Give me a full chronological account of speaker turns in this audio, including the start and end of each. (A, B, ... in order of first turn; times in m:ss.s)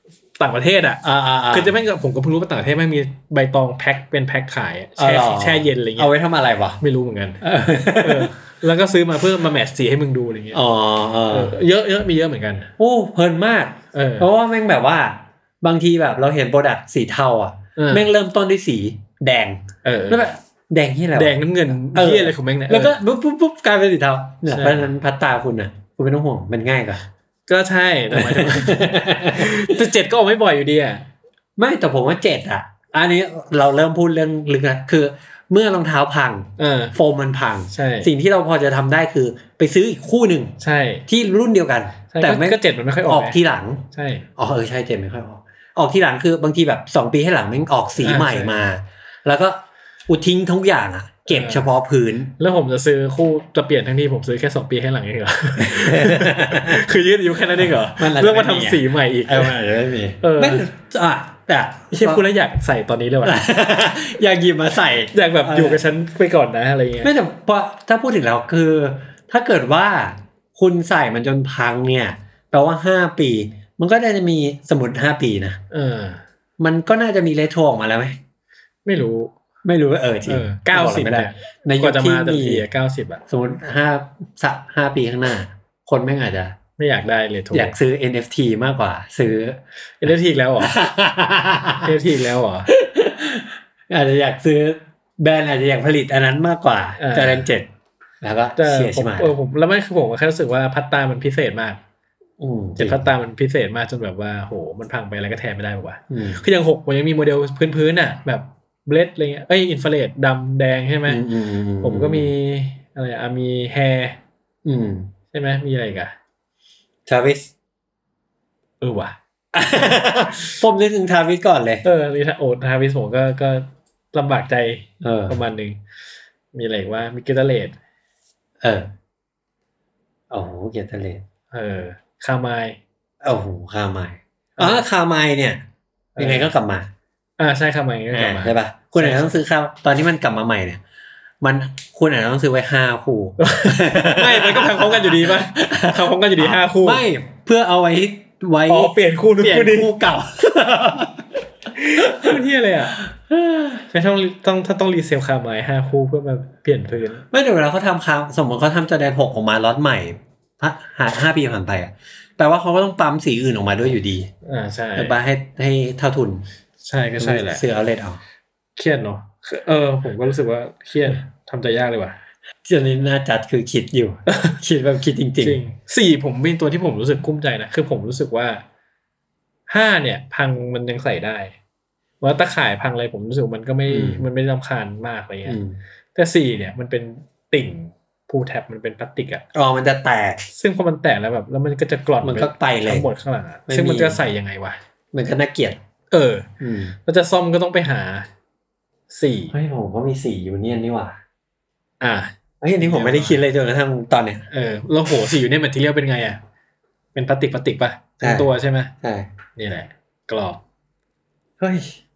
0:00.4-0:06.1 A
0:01.0-0:01.7 B
0:05.0-0:06.8 B
0:06.8-0:10.6 A
0:07.4-0:08.3 B
0:10.5-0:11.6 B
0:11.3-0:12.7 A
0:12.8-0:21.4 B
0:13.9-0:14.3 A
0:17.8-0:18.1 A
0:19.8-0:20.3 A
0:21.1-0:23.0 A
0:21.9-0:27.0 B
0:24.5-0:24.9 A
0:27.5-0:31.1 A
0:28.1-0:29.7 B
0:31.6-0:40.6 B
0:36.6-0:37.0 A
0:37.7-0:38.1 A
0:40.6-0:41.0 A
0:41.1-0:43.8 B
0:42.1-0:43.4 A
0:43.9-0:44.2 A
0:44.4-0:52.3 B
0:48.0-0:48.6 A
0:51.3-0:51.7 A
0:52.4-0:59.6 A
0:55.6-0:56.8 B
0:57.8-1:02.2 B
1:00.2-1:00.6 A
1:01.9-1:03.4 A
1:03.2-1:05.8 B
1:05.1-1:07.1 A
1:07.0-1:15.6 B
1:15.7-1:16.2 A
1:16.6-1:18.2 B
1:18.8-1:19.3 A
1:19.6-1:22.6 B
1:20.2-1:23.2 A
1:23.3-1:26.6 B
1:26.8-1:27.7 A
1:27.5-1:29.6 B
1:30.0-1:30.8 A
1:30.6-1:31.9 B
1:31.8-1:32.7 A
1:32.7-1:37.7 B
1:37.0-1:37.4 A
1:38.2-1:39.3 B
1:38.6-1:41.8 A
1:42.4-1:43.0 B
1:42.8-1:51.2 A
1:46.1-1:46.4 B
1:51.1-1:52.3 B
1:51.8-1:54.2 A
1:54.6-1:55.1 B
1:55.3-1:56.1 A
1:57.0-1:57.5 B
1:58.8-1:59.2 A
1:59.5-2:01.8 B
2:01.8-2:05.8 A
2:05.0-2:05.4 B
2:06.5-2:07.7 A
2:08.6-2:08.9 B
2:10.3-2:11.2 B
2:11.5-2:12.8 A
2:13.2-2:15.6 B
2:14.6-2:14.8 A
2:16.2-2:16.5 A
2:16.2-2:16.9 B
2:17.4-2:19.3 A
2:18.1-2:20.8 B
2:21.4-2:31.3 B
2:23.4-2:27.0 A
2:28.7-2:29.9 A
2:31.7-2:33.0 A
2:32.0-2:32.3 B
2:33.3-2:33.8 B
2:33.9-2:37.2 A
2:37.3-2:44.3 B
2:44.4-2:45.1 A
2:44.9-2:46.4 B
2:46.8-2:47.6 A
2:47.2-2:48.2 B
2:48.8-2:52.2 A
2:52.6-2:55.6 B
2:54.3-2:54.6 A
2:55.4-2:58.6 A
2:59.7-3:01.5 A
3:02.2-3:05.6 A
3:03.9-3:04.2 B
3:05.4-3:05.8 B
3:06.1-3:09.4 A
3:09.5-3:10.4 B
3:10.5-3:14.8 A
3:12.2-3:13.1 B
3:13.7-3:14.2 B
3:15.1-3:15.8 B
3:16.1-3:16.5 A
3:16.6-3:17.0 B
3:17.0-3:18.3 A
3:19.1-3:19.5 A
3:19.5-3:21.2 B
3:22.0-3:23.4 A
3:22.6-3:24.4 B
3:24.5-3:26.4 A
3:27.1-3:28.9 A
3:28.2-3:28.5 B
3:29.0-3:29.3 B
3:29.6-3:30.6 A
3:31.6-3:32.0 B